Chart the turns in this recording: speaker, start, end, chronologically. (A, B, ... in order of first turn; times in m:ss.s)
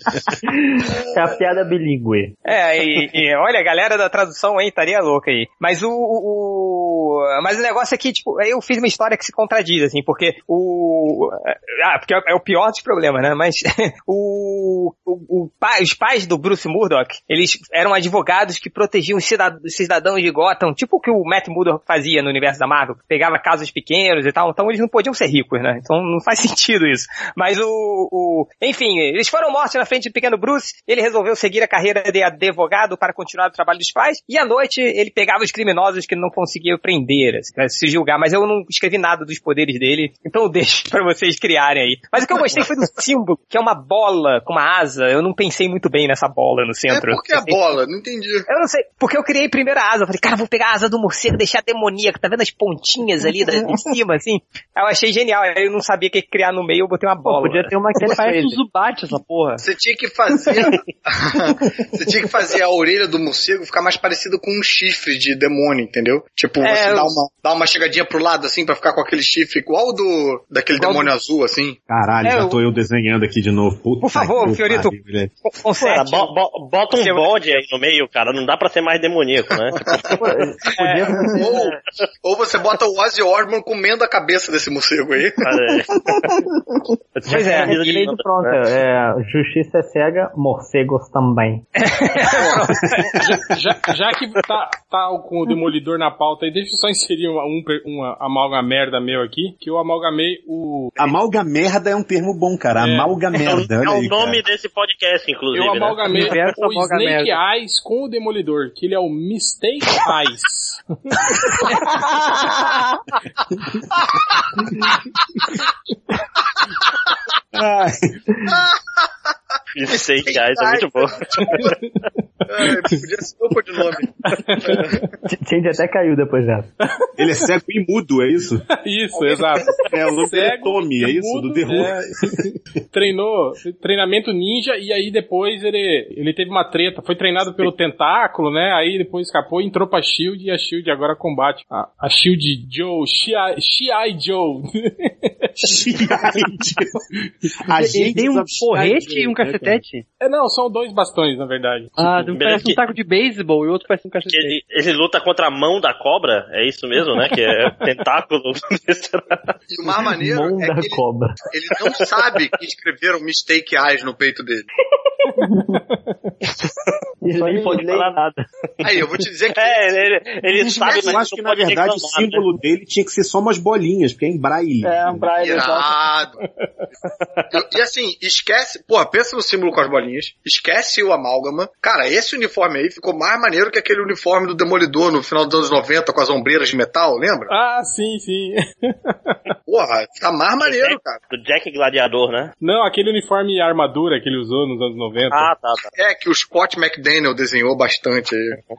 0:01.0-0:02.4 A
0:02.4-0:47.7 B
0:46.9-0:48.5 C
0:48.5-0:57.7 B
0:57.2-0:58.6 A
0:57.9-0:59.6 D
0:59.6-1:11.8 C
1:06.6-1:07.1 B
1:10.8-1:11.1 B
1:11.9-1:15.3 E
1:12.2-1:12.6 B
1:14.0-1:16.3 B
1:15.8-1:20.1 F
1:16.9-1:17.3 B
1:19.8-1:20.2 C
1:20.2-1:21.6 A
1:20.7-1:21.3 B
1:21.3-1:25.6 C
1:25.4-1:26.4 F
1:27.2-1:28.6 F
1:27.3-1:31.6 A
1:27.3-1:27.8 B
1:31.8-1:33.2 B
1:32.4-1:32.7 C
1:33.1-1:41.1 G
1:41.0-1:44.4 E
1:42.8-1:43.2 G
1:43.4-1:46.3 F
1:45.5-1:51.7 G
1:46.1-1:47.4 D
1:57.5-1:58.2 E
1:58.5-1:58.8 C
1:59.7-2:01.7 F
1:59.9-2:01.7 C
2:02.5-2:04.9 C
2:02.6-2:03.0 G
2:04.4-2:05.0 G
2:05.2-2:06.7 A
2:07.2-2:08.6 E
2:08.8-2:25.8 G
2:09.8-2:12.0 E
2:25.6-2:27.0 E
2:27.6-2:29.8 E
2:27.8-2:30.0 D
2:30.2-2:32.3 G
2:32.0-2:34.6 D
2:32.3-2:32.8 F
2:34.2-2:39.4 F
2:39.7-2:44.7 C
2:40.2-2:41.3 A
2:45.4-2:45.7 A
2:47.2-2:48.4 A
2:47.3-2:48.1 H
2:48.8-2:50.0 C
2:49.6-2:52.4 F
2:50.6-2:55.3 E
2:50.8-2:51.2 C
2:54.8-2:56.0 H
2:55.4-2:56.3 C
2:57.5-3:07.5 C
3:07.5-3:09.5 G
3:09.7-3:11.2 C
3:10.6-3:12.5 F
3:12.6-3:15.5 G
3:15.3-3:15.9 F
3:16.0-3:18.6 C